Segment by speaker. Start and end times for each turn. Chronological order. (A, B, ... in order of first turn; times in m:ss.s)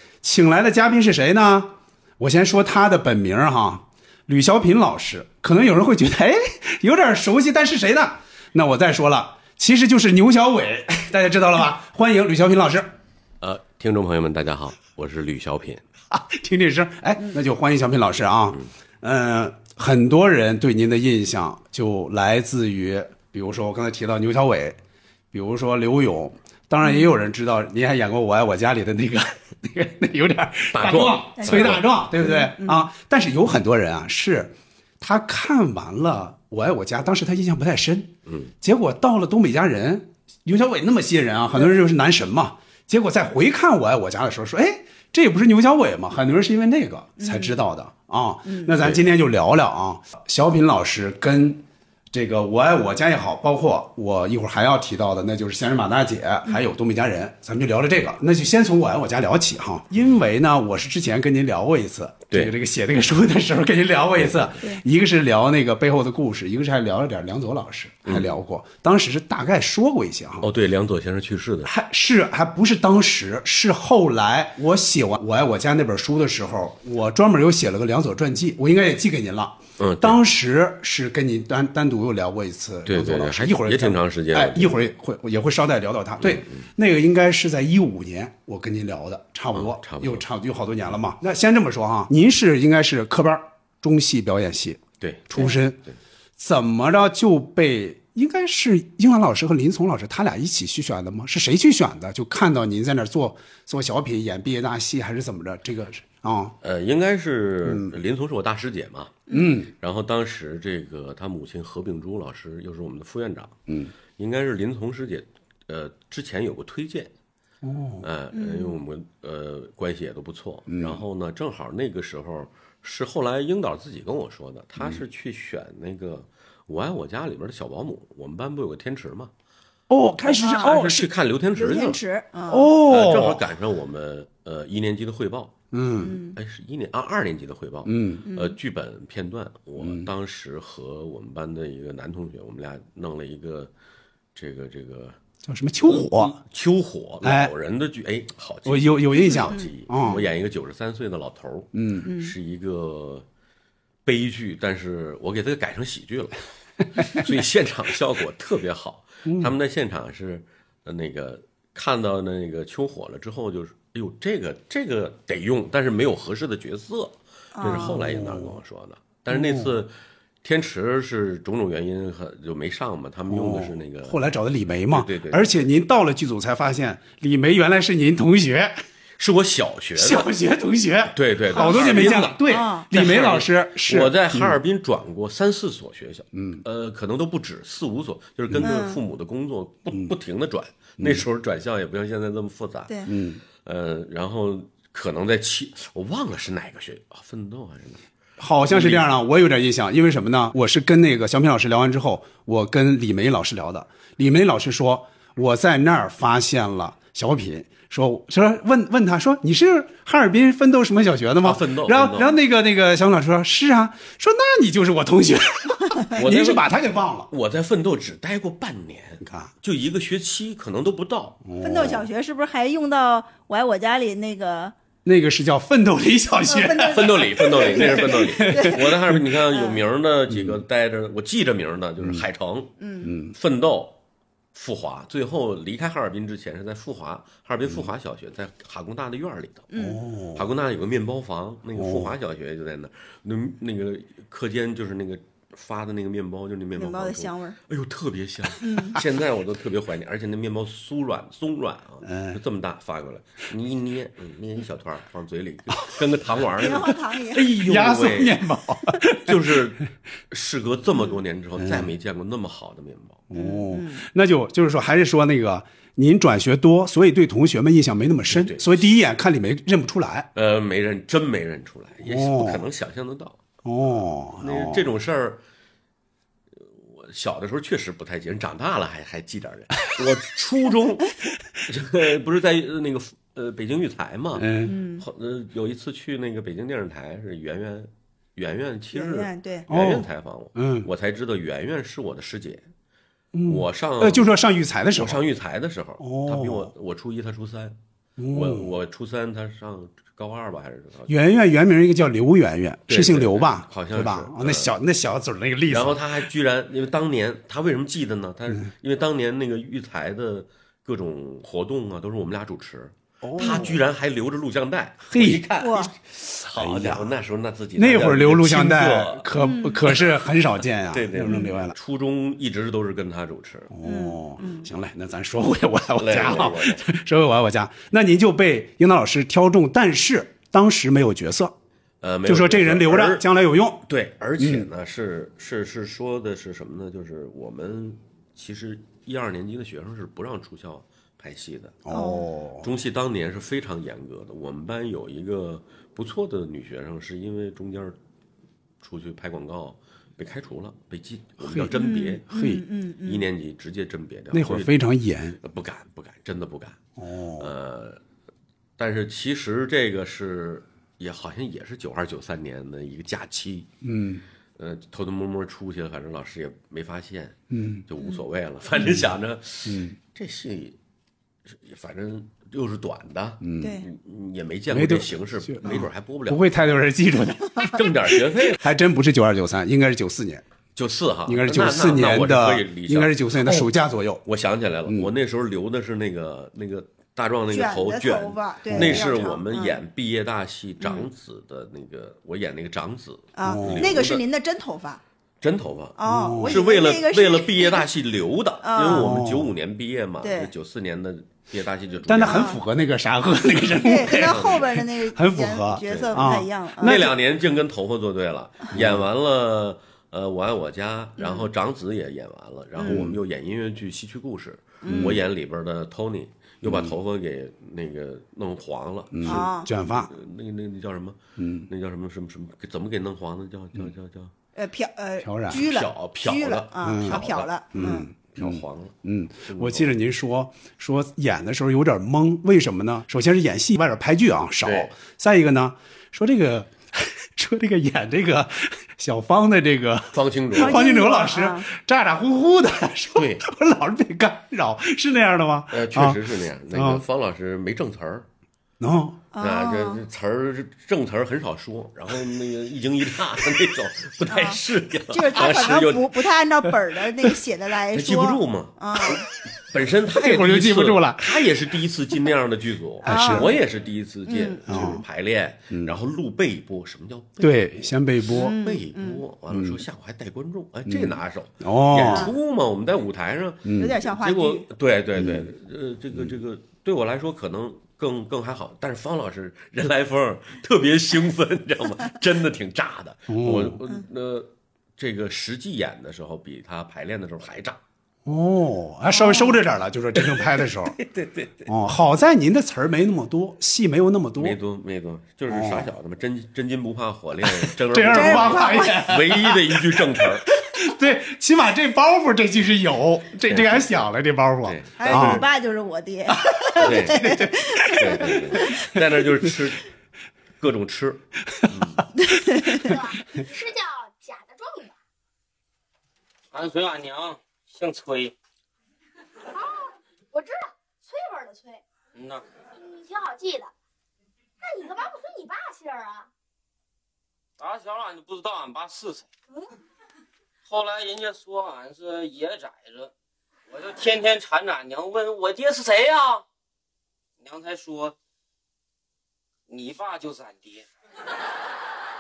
0:00.2-0:12.9 A
0:13.4-0:15.9 B
0:16.1-0:24.8 A
0:25.3-1:10.5 A
0:30.7-0:31.8 B
0:31.4-0:32.9 C
0:38.3-0:38.5 B
0:47.2-0:47.6 C
0:48.5-0:48.8 C
1:04.2-1:04.5 B
1:08.0-1:08.4 B
1:10.4-1:11.7 B
1:11.6-1:35.8 A
1:19.8-1:20.2 B
1:22.9-1:24.8 B
1:26.2-1:26.7 B
1:29.5-1:30.3 B
1:35.0-1:36.0 B
1:36.4-1:46.6 A
1:46.6-1:53.6 B
1:47.6-1:48.0 A
1:49.3-1:49.6 C
1:49.3-1:49.7 A
1:53.7-1:53.9 A
1:54.2-1:57.1 B
1:57.6-1:58.0 A
1:58.0-2:09.3 B
1:58.3-1:58.8 C
2:00.7-2:01.0 A
2:09.9-2:11.1 A
2:10.3-2:10.8 C
2:10.4-2:12.0 B
2:11.6-2:12.9 C
2:12.5-2:13.4 A
2:12.9-2:15.5 B
2:15.7-2:16.2 A
2:16.0-2:16.4 C
2:16.4-2:23.7 B
2:17.8-2:18.2 A
2:18.2-2:18.6 C
2:19.8-2:20.1 A
2:24.4-2:25.2 B
2:25.5-2:26.4 A
2:25.8-2:33.3 B
2:27.2-2:27.5 A
2:28.6-2:30.2 A
2:29.1-2:30.2 C
2:31.7-2:32.1 A
2:32.0-2:32.3 C
2:34.0-2:36.4 B
2:37.0-2:54.3 B
2:39.3-2:39.5 A
2:47.6-2:48.0 C
2:47.7-2:48.6 A
2:49.3-2:49.8 A
2:53.3-2:58.8 A
2:54.9-2:55.6 B
2:59.2-3:00.3 B
3:00.0-3:04.6 A
3:01.1-3:13.0 B
3:01.5-3:02.9 C
3:06.3-3:06.6 A
3:08.6-3:09.0 C
3:09.9-3:10.2 A
3:11.0-3:11.3 A
3:12.9-3:13.1 C
3:13.1-3:13.4 A
3:13.6-3:18.1 B
3:18.4-3:37.3 A
3:18.6-3:19.1 B
3:31.4-3:32.3 B
3:36.2-3:36.7 B
3:37.3-3:41.4 B
3:39.2-3:39.5 A
3:41.4-3:42.1 A
3:41.6-3:44.8 C
3:45.0-3:49.1 A
3:46.5-3:48.8 C
3:46.9-3:52.7 B
3:49.5-3:49.8 C
3:50.3-3:50.6 A
3:52.8-3:53.2 C
3:53.0-3:53.3 A
3:53.3-3:54.0 B
3:54.5-3:59.7 B
3:59.7-4:00.0 C
3:59.8-4:00.5 A
4:00.4-4:18.4 B
4:01.8-4:02.2 A
4:06.7-4:07.6 C
4:08.6-4:09.0 C
4:12.0-4:12.4 A
4:16.6-4:17.6 C
4:17.3-4:19.6 A
4:19.2-4:23.2 B
4:21.6-4:21.9 A
4:23.3-4:30.3 A
4:23.3-4:24.0 C
4:28.3-4:28.7 B
4:30.4-4:33.4 B
4:32.0-4:32.6 A
4:33.6-4:34.9 A
4:34.4-4:35.4 B
4:36.6-4:41.1 B
4:41.6-4:52.7 B
4:44.4-4:44.7 A
4:44.6-4:45.1 C
4:48.9-4:49.7 C
4:49.7-4:50.9 A
4:53.3-4:55.2 A
4:53.5-4:54.4 B
4:55.0-4:57.8 B
4:56.0-4:56.7 A
4:58.2-4:58.7 A
4:58.3-5:01.2 B
5:01.1-5:06.2 A
5:02.9-5:04.7 B
5:05.7-5:19.3 B
5:13.2-5:13.8 A
5:15.1-5:15.5 A
5:15.6-5:15.9 C
5:16.4-5:17.1 A
5:17.8-5:21.8 A
5:19.4-5:19.8 C
5:20.9-5:23.7 B
5:21.3-5:21.5 C
5:23.7-5:31.6 A
5:23.8-5:24.7 C
5:26.0-5:26.8 B
5:32.0-5:33.3 B
5:32.2-5:33.8 A
5:33.8-5:41.8 B
5:34.4-5:34.7 A
5:41.9-5:42.7 A
5:41.9-5:42.3 C
5:42.6-5:48.0 B
5:48.8-5:52.3 B
5:51.4-5:52.6 A
5:51.7-5:53.3 C
5:53.0-5:54.8 B
5:54.3-5:55.4 A
5:55.4-5:56.8 B
5:57.0-5:57.5 A
5:57.4-5:58.0 B
5:58.8-6:03.7 B
6:03.8-6:04.2 A
6:04.6-6:10.8 B
6:07.5-6:07.9 A
6:08.8-6:09.1 A
6:09.6-6:10.0 A
6:11.5-6:16.5 B
6:13.4-6:13.8 A
6:13.6-6:13.9 C
6:14.7-6:20.4 A
6:17.7-6:18.6 B
6:20.8-6:23.6 B
6:21.3-6:24.2 A
6:24.2-6:34.2 B
6:24.9-6:25.1 A
6:27.5-6:29.8 C
6:28.7-6:29.1 A
6:30.8-6:31.1 C
6:33.4-6:35.0 C
6:33.4-6:34.0 A
6:35.4-6:42.6 B
6:36.0-6:37.9 C
6:36.0-6:36.6 A
6:38.6-6:39.2 C
6:38.9-6:39.5 A
6:40.2-6:40.5 C
6:42.1-6:47.2 A
6:42.2-6:42.6 C
6:43.8-6:47.1 C
6:44.2-6:44.7 B
6:45.8-7:04.3 B
6:48.7-6:49.0 A
6:51.2-6:51.5 C
6:52.8-6:53.0 C
6:52.9-6:53.2 A
6:54.8-6:55.2 C
6:54.9-6:55.2 A
6:56.6-6:56.9 A
6:59.1-7:00.1 A
6:59.2-6:59.7 C
7:01.4-7:01.7 A
7:04.6-7:08.1 C
7:05.2-7:05.6 A
7:05.5-7:09.0 B
7:06.8-7:26.2 A
7:09.5-7:10.0 B
7:14.6-7:14.9 B
7:20.1-7:20.9 B
7:20.6-7:21.7 C
7:23.2-7:23.4 B
7:25.7-7:28.3 B
7:26.7-7:27.0 A
7:28.8-7:29.2 A
7:29.3-7:30.0 C
7:29.4-7:36.2 B
7:34.3-7:39.2 C
7:37.9-8:07.8 B
7:40.1-7:41.3 A
7:43.0-7:43.6 C
7:43.0-7:43.5 A
7:44.3-7:45.0 C
7:44.7-7:45.0 A
7:47.4-7:48.5 A
7:48.3-7:49.2 C
7:49.5-7:49.8 A
7:50.9-7:52.3 A
7:53.6-7:54.0 A
7:53.8-7:54.7 C
7:55.2-7:55.5 A
8:03.3-8:03.8 A
8:08.2-8:11.0 A
8:09.1-8:09.6 C
8:10.3-8:11.7 B
8:11.7-8:14.6 A
8:14.4-8:20.5 B
8:15.5-8:15.9 A
8:17.5-8:25.4 A
8:18.1-8:19.1 C
8:23.5-8:23.9 B
8:24.6-8:25.5 B
8:25.0-8:28.9 C
8:26.4-8:28.8 A
8:26.8-8:27.3 B
8:27.9-8:29.8 B
8:30.6-8:32.1 B
8:31.6-8:32.0 A
8:32.2-8:32.8 C
8:32.8-8:35.0 D
8:36.5-8:38.3 E
8:39.5-8:41.8 D
8:42.1-8:42.4 E
8:42.8-8:43.7 D
8:44.6-8:46.3 D
8:47.6-8:49.3 E
8:50.7-8:53.1 E
8:53.7-8:56.4 E
8:57.4-8:58.2 E
8:59.7-9:00.9 E